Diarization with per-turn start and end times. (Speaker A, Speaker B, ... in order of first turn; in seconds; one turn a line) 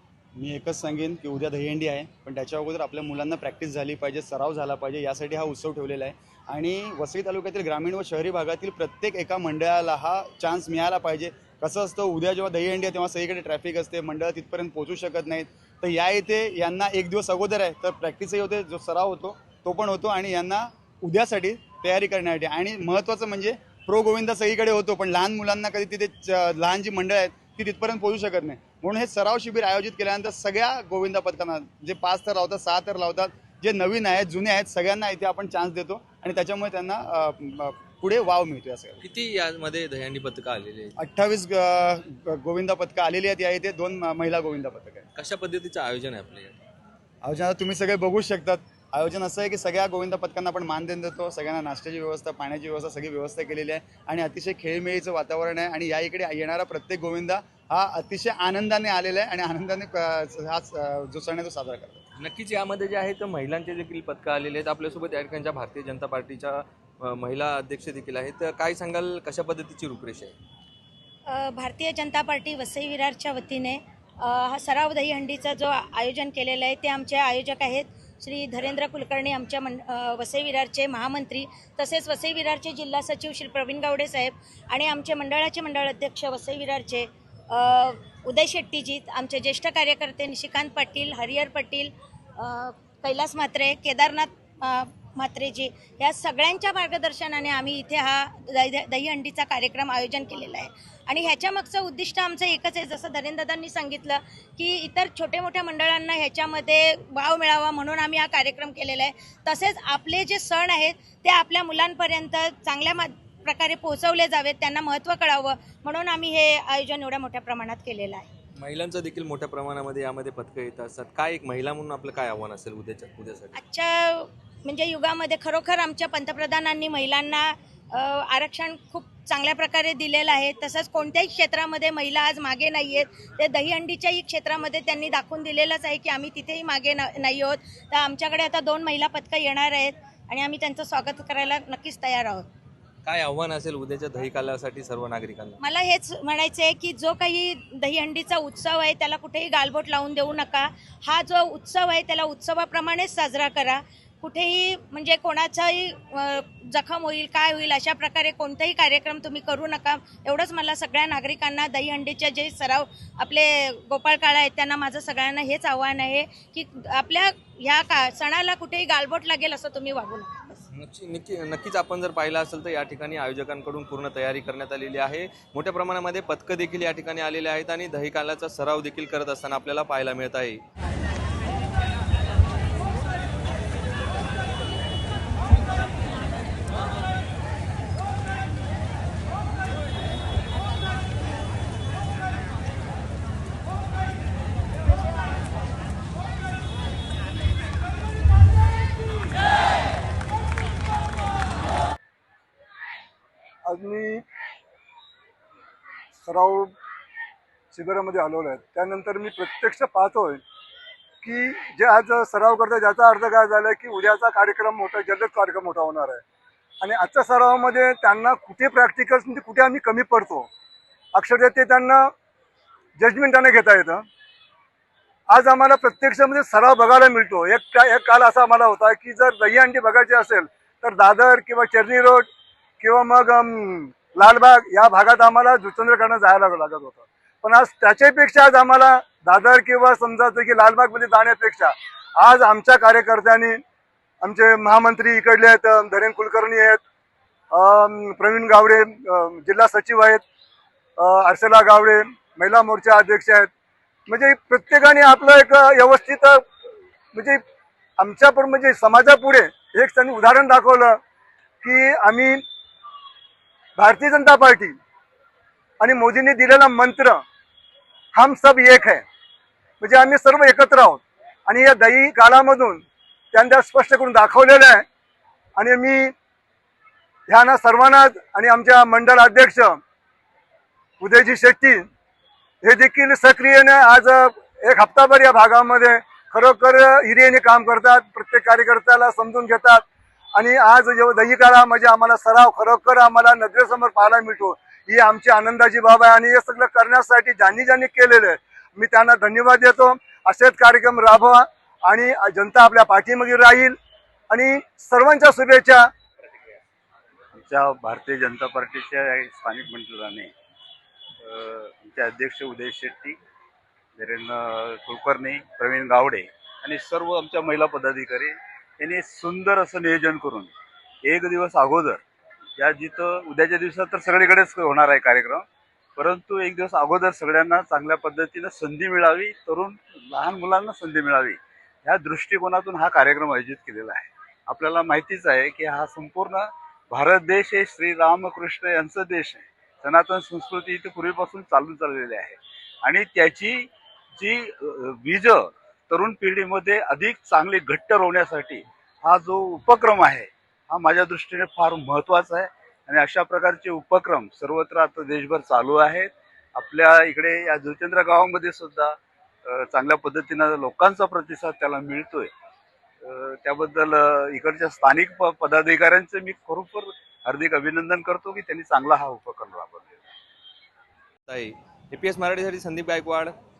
Speaker A: 0.3-39.0
Speaker B: 39.0-41.0
Speaker A: 41.0-45.0
Speaker B: 45.1-46.6
Speaker A: 47.2-62.0
Speaker B: 62.2-70.3
Speaker C: 71.3-118.3
Speaker B: 118.6-123.5
Speaker C: 123.5-142.4
Speaker B: 143.0-145.6
Speaker C: 145.6-170.6
Speaker B: 170.7-180.6
Speaker D: 203.6-204.2
Speaker D: 206.2-206.7
Speaker D: 207.7-210.4
Speaker D: 211.2-216.2
Speaker D: 216.8-220.5
Speaker D: 221.1-222.1
Speaker D: 223.0-224.0
Speaker D: 225.3-232.3
Speaker D: 232.8-243.6
Speaker D: 244.2-246.8
Speaker D: 247.5-250.2
Speaker D: 251.0-253.5
Speaker D: 254.1-256.4
Speaker D: 257.1-257.4
Speaker D: 258.0-261.0
Speaker D: 261.6-262.4
Speaker D: 263.8-264.8
Speaker D: 265.8-267.2
Speaker D: 268.1-269.0
Speaker D: 269.8-274.8
Speaker D: 275.6-276.1
Speaker D: 277.3-279.8
Speaker D: 281.0-281.8
Speaker D: 282.6-289.8
Speaker D: 290.3-303.7
Speaker D: 304.3-305.9
Speaker E: 307.3-310.3
Speaker E: 311.2-313.2
Speaker E: 313.9-320.5
Speaker E: 321.0-322.0
Speaker E: 322.6-325.4
Speaker E: 326.0-362.3
Speaker E: 363.0-369.9
Speaker B: 371.3-373.3